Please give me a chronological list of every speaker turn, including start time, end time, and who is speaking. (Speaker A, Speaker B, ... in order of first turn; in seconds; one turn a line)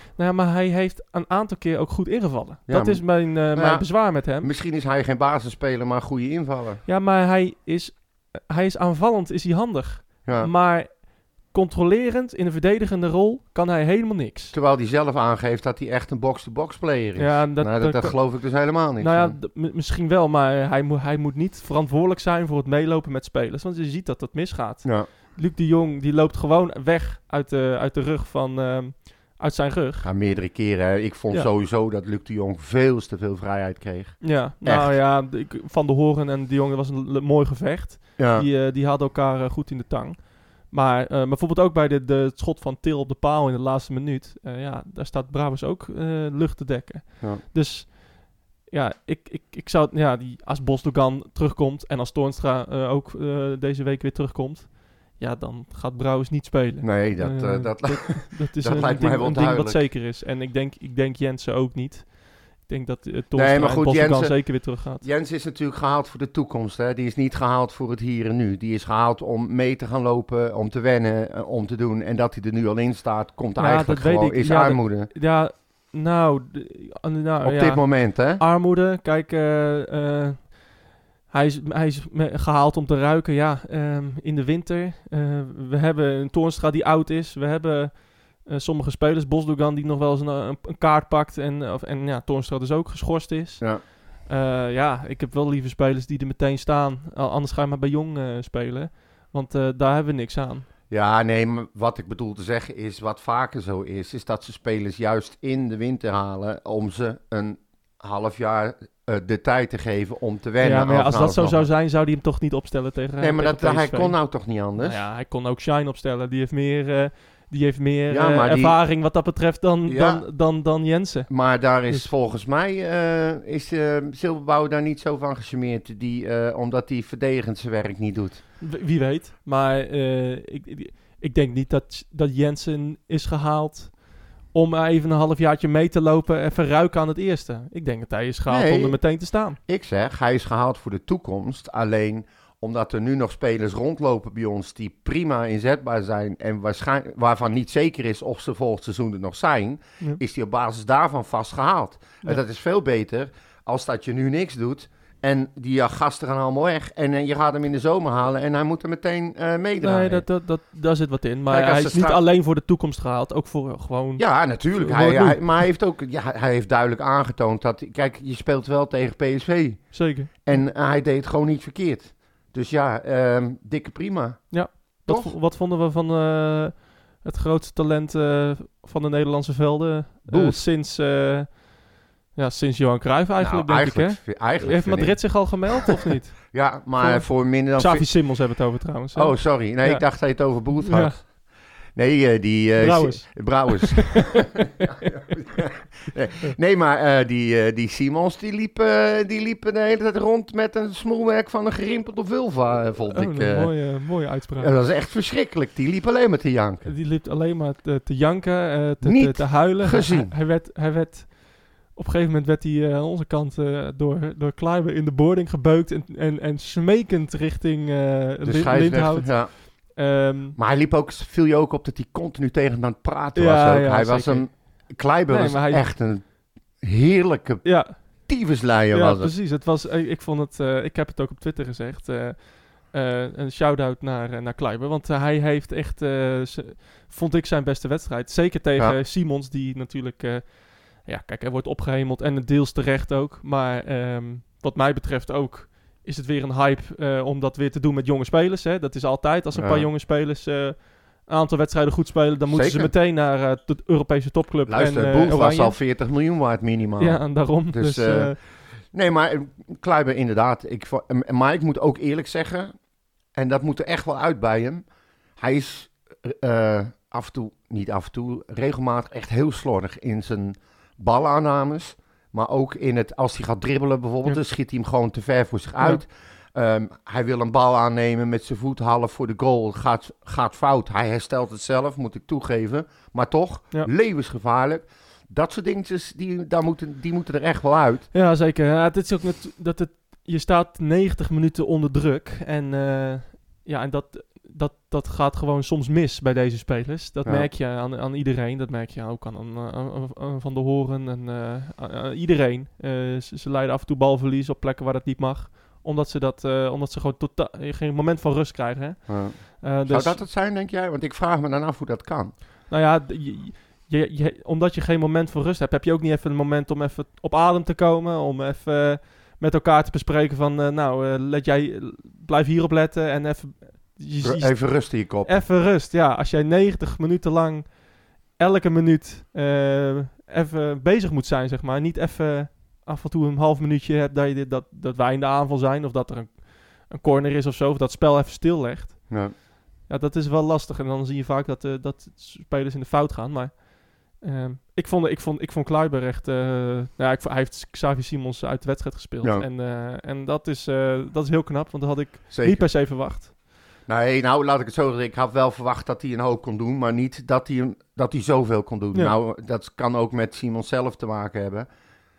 Speaker A: 0.1-4.5
Speaker B: 2.7-6.8
Speaker A: 6.8-14.6
Speaker B: 10.2-10.5
Speaker B: 14.5-19.4
Speaker A: 17.2-18.4
Speaker A: 19.0-30.1
Speaker B: 24.8-25.1
Speaker B: 30.0-35.0
Speaker A: 34.2-65.0
Speaker B: 38.2-38.5
Speaker B: 56.8-59.8
Speaker B: 63.3-75.1
Speaker A: 73.6-80.8
Speaker B: 77.4-78.4
Speaker A: 81.3-100.7
Speaker B: 100.9-111.7
Speaker A: 110.6-114.2
Speaker B: 113.2-115.0
Speaker A: 114.8-121.3
Speaker B: 118.1-118.8
Speaker B: 119.8-120.2
Speaker B: 121.3-128.4
Speaker A: 128.6-139.6
Speaker B: 138.5-160.2
Speaker A: 159.8-165.7
Speaker B: 161.5-162.2
Speaker B: 164.2-175.3
Speaker A: 169.9-170.6
Speaker A: 174.5-191.2
Speaker B: 180.3-180.6
Speaker B: 183.4-186.0
Speaker B: 186.5-188.2
Speaker B: 189.1-191.3
Speaker B: 191.9-203.9
Speaker A: 192.8-195.1
Speaker A: 203.1-204.7
Speaker B: 204.6-206.9
Speaker A: 206.8-220.6
Speaker B: 209.0-210.3
Speaker B: 218.4-220.0
Speaker B: 220.6-229.3
Speaker A: 223.3-225.8
Speaker A: 227.6-228.3
Speaker A: 228.9-255.8
Speaker B: 249.5-249.9
Speaker B: 252.5-252.9
Speaker B: 254.7-262.7
Speaker A: 257.0-258.4
Speaker B: 263.3-264.8
Speaker B: 265.4-288.1
Speaker A: 288.1-310.2
Speaker B: 309.1-312.4
Speaker A: 312.7-353.3
Speaker B: 324.2-325.4
Speaker B: 339.1-339.3
Speaker B: 352.3-352.6
Speaker B: 353.9-361.7